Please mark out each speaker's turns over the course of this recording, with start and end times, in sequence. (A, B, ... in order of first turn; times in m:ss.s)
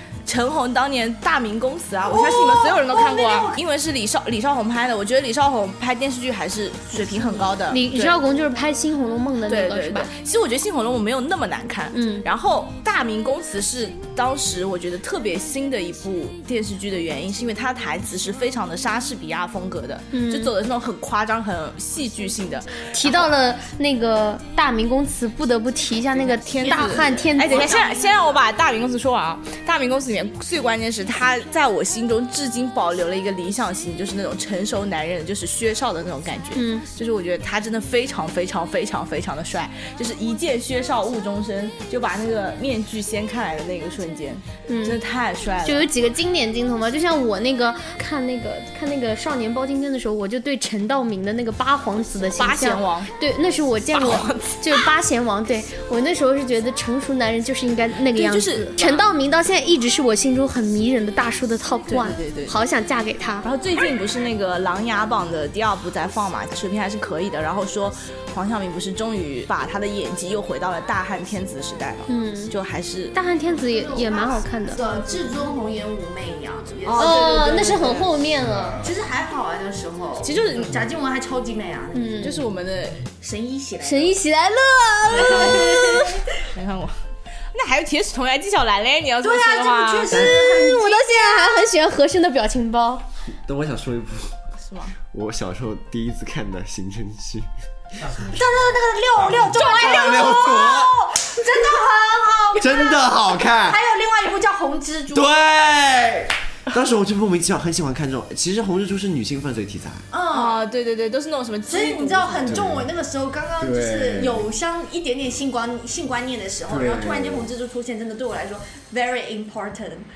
0:00.3-0:08.2 A
0:02.1-0:03.6 B
0:06.9-0:07.6 B
0:07.7-0:10.1 C
0:09.5-0:22.8 A
0:11.9-0:12.3 C
0:20.1-0:20.5 C
0:22.9-0:27.9 C
0:26.2-0:45.9 A
0:36.5-0:36.8 C
0:44.7-0:45.0 C
0:45.6-1:03.5 C
0:52.3-0:53.1 A
0:53.9-0:54.8 A
0:58.2-0:59.1 A
1:01.9-1:02.6 A
1:03.4-1:13.2 A
1:12.1-1:12.5 C
1:13.1-1:14.8 C
1:13.7-1:18.1 B
1:17.0-1:18.0 A
1:17.0-1:18.8 C
1:18.8-1:22.4 B
1:20.2-1:20.8 A
1:21.9-1:22.3 C
1:22.2-1:23.0 A
1:23.2-1:24.2 B
1:23.8-1:26.3 C
1:25.1-1:27.0 A
1:27.5-1:30.3 A
1:29.2-1:31.5 B
1:30.1-1:33.0 C
1:33.4-1:34.3 D
1:34.6-1:35.0 A
1:35.1-1:37.5 D
1:38.2-1:45.3 B
1:39.7-1:40.9 D
1:42.6-1:43.8 D
1:45.1-1:50.1 D
1:50.1-1:50.6 B
1:50.3-1:52.7 A
1:51.7-2:00.1 B
1:52.5-1:52.9 D
1:53.6-1:54.4 D
1:56.7-1:57.5 D